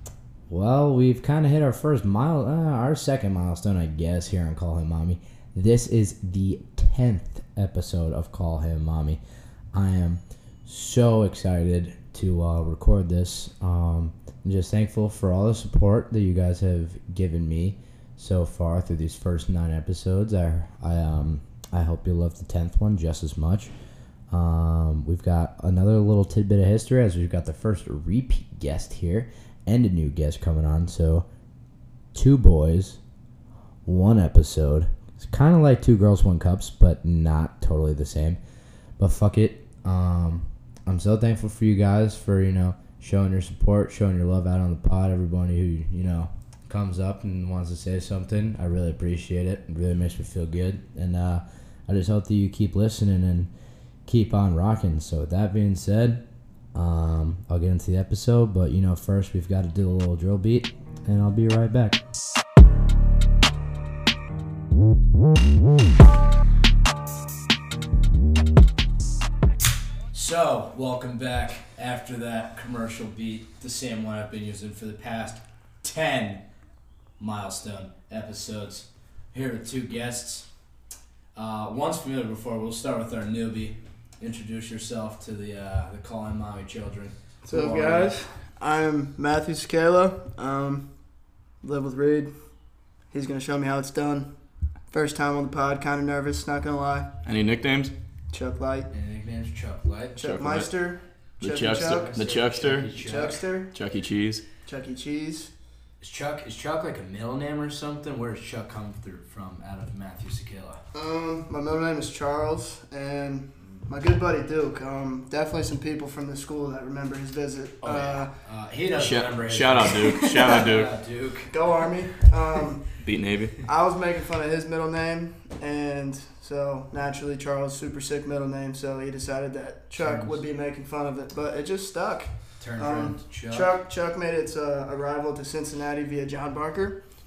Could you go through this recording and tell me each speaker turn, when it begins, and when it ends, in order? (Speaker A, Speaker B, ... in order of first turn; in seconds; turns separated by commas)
Speaker A: 0.5-9.2, Speaker A: 9.7-23.7, Speaker A: 24.3-31.3, Speaker A: 32.1-33.0, Speaker A: 33.9-38.4, Speaker A: 39.0-53.5, Speaker A: 54.1-56.2, Speaker A: 56.7-62.0, Speaker A: 70.1-76.4, Speaker A: 77.2-80.5, Speaker A: 81.3-88.2, Speaker B: 87.4-90.9, Speaker B: 91.6-92.3, Speaker B: 93.1-94.3, Speaker B: 94.9-97.1, Speaker C: 97.2-97.9, Speaker B: 98.3-98.9, Speaker A: 98.9-100.4, Speaker B: 100.2-103.7, Speaker C: 100.2-100.7, Speaker C: 101.4-102.9, Speaker A: 101.8-103.4, Speaker C: 103.7-104.4, Speaker B: 104.7-105.5, Speaker A: 106.0-110.8, Speaker B: 110.9-118.3, Speaker A: 117.8-121.5, Speaker C: 119.0-120.9, Speaker B: 119.9-120.7, Speaker B: 121.5-122.9, Speaker C: 123.0-123.6, Speaker B: 123.6-137.0, Speaker A: 130.0-130.4, Speaker A: 132.6-133.8